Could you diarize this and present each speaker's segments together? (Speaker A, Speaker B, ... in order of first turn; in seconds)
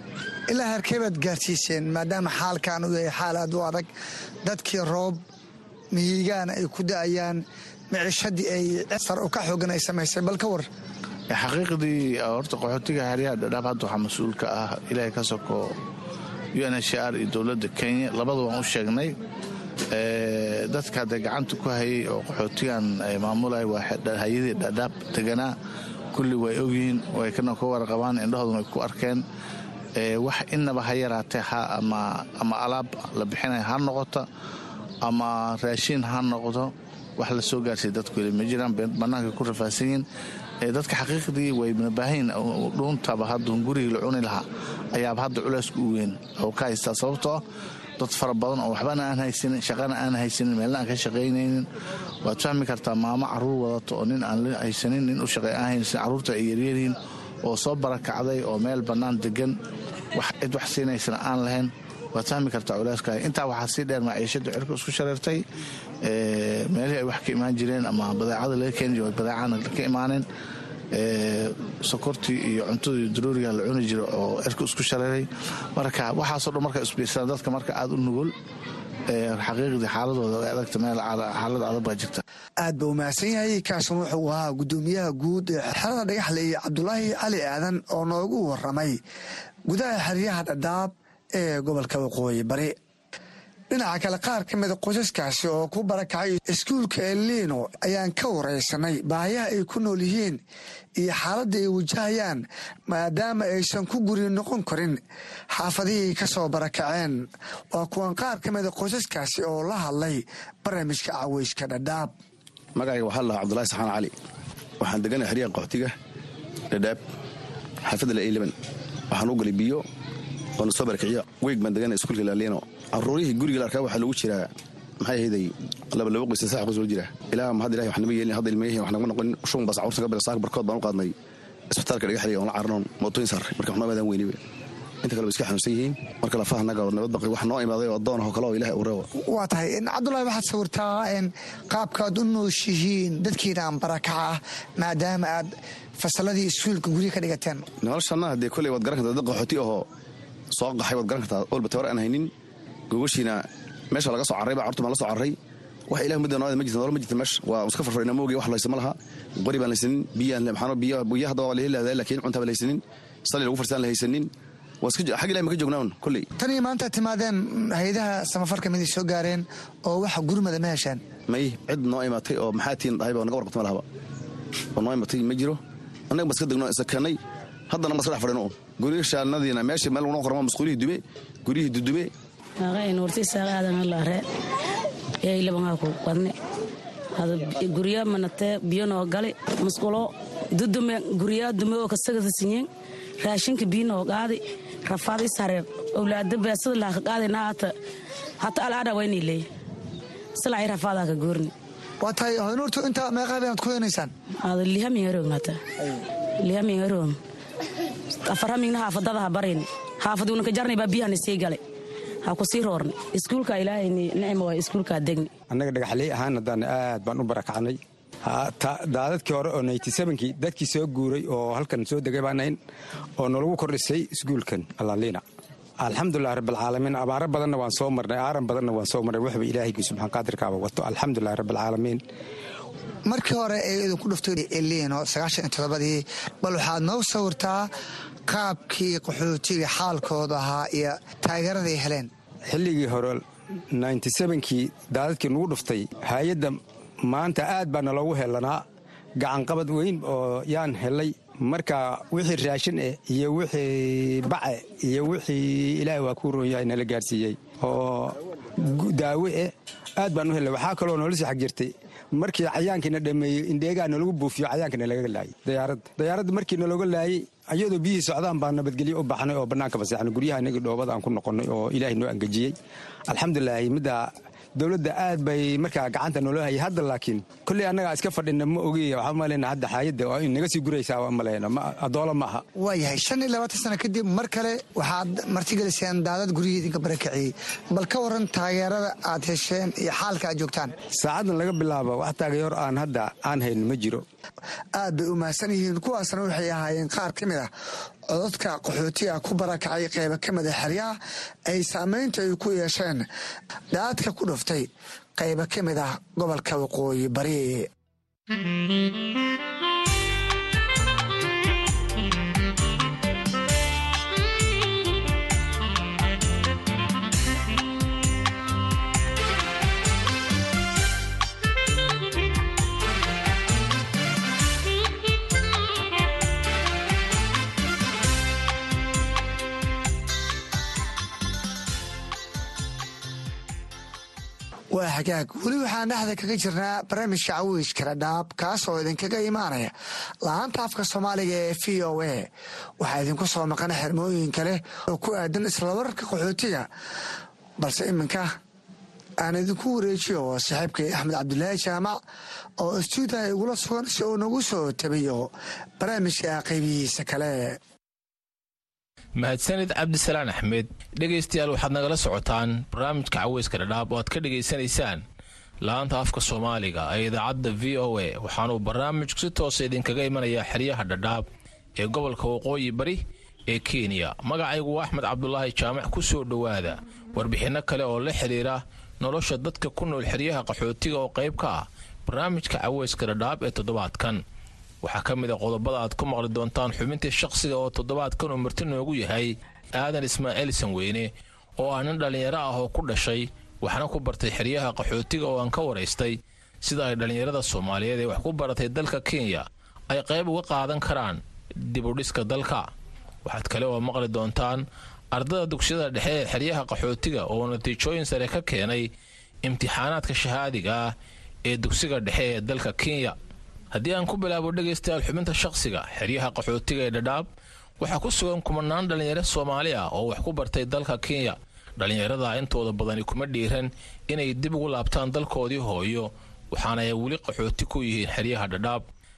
Speaker A: 0.5-3.9, 4.4-5.2, 5.9-10.7, 82.6-89.0, 89.7-92.7, 93.7-100.4, 101.0-105.0, 105.5-112.1, 139.1-147.7, 166.4-171.0, 202.0-204.1, 233.0-237.7, 238.3-242.1, 282.6-290.8, 294.7-297.5, 298.1-300.9, 301.5-303.0, 303.7-307.7, 334.7-346.7, 347.6-348.3, 349.2-352.0, 352.6-357.6
Speaker B: 11.3-15.8, 16.5-19.1, 19.9-25.5, 26.1-29.2, 29.9-34.2, 35.0-40.0, 40.6-47.4, 48.0-51.7, 52.2-59.5, 60.1-65.4, 66.0-70.2, 70.9-78.3, 79.1-82.2
Speaker C: 112.8-114.1, 114.8-115.9, 116.7-117.0, 117.8-118.5, 119.1-119.8, 120.6-124.5, 125.0-131.1, 131.7-134.4, 135.0-139.1, 147.8-149.8, 150.5-152.3, 152.9-155.3, 155.9-164.3, 164.8-166.2, 171.3-173.8, 174.8-175.6, 176.1-177.2, 177.7-182.1
Speaker D: 182.6-184.2, 185.2-186.3, 187.2-192.7, 193.2-197.7, 198.4-199.4, 200.3-201.5, 204.4-205.6, 206.4-207.2, 208.2-211.6, 212.2-215.3
Speaker E: 215.5-222.6, 223.2-225.2, 225.8-232.0, 242.5-248.6, 249.2-272.5, 273.1-282.4, 290.9-294.0
Speaker F: 359.2-365.0, 365.6-371.2, 371.8-384.2, 384.8-402.7, 403.2-408.9, 409.4-410.9, 411.4-413.1, 413.7-417.3, 417.8-428.8